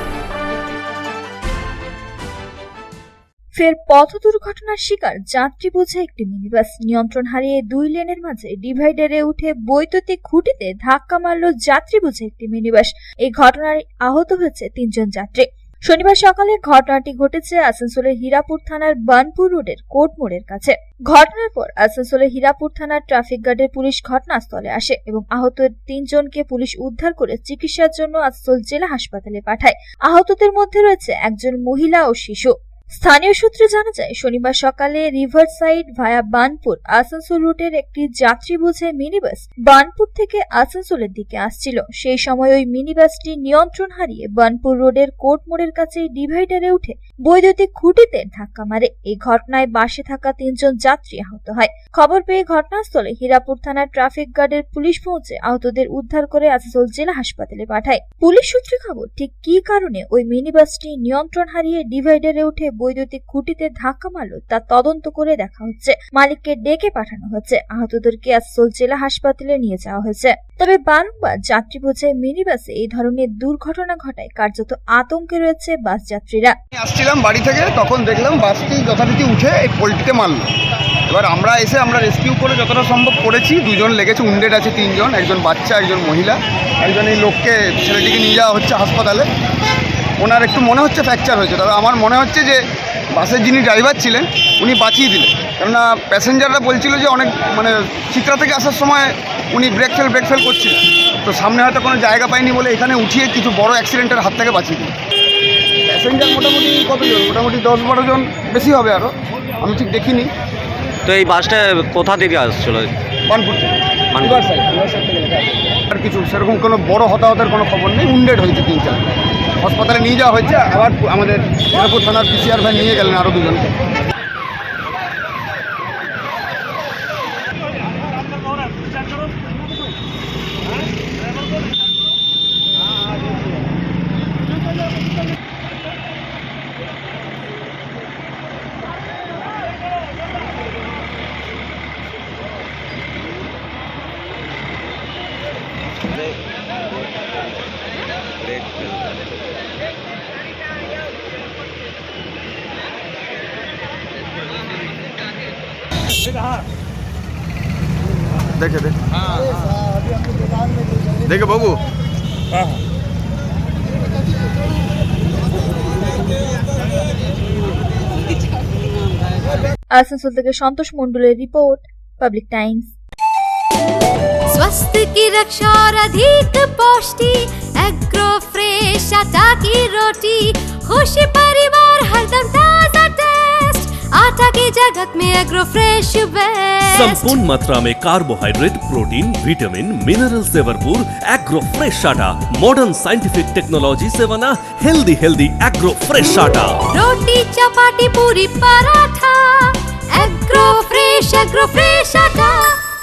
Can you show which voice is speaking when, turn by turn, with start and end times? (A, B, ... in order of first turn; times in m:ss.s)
0:03.6-1:16.6 A
1:16.8-1:20.5 B
1:21.1-1:29.3 B
1:30.2-1:32.6 B
1:33.1-1:44.9 B
1:45.9-1:50.3 B
1:51.0-1:52.9 C
1:53.3-1:55.2 B
1:54.1-1:54.5 C
1:55.9-1:59.0 B
1:59.6-2:03.7 B
2:38.6-2:39.2 B
2:41.3-2:41.8 B
2:50.0-2:52.9 A
2:54.5-3:07.4 D
3:06.9-3:16.8 E
3:16.9-3:22.5 D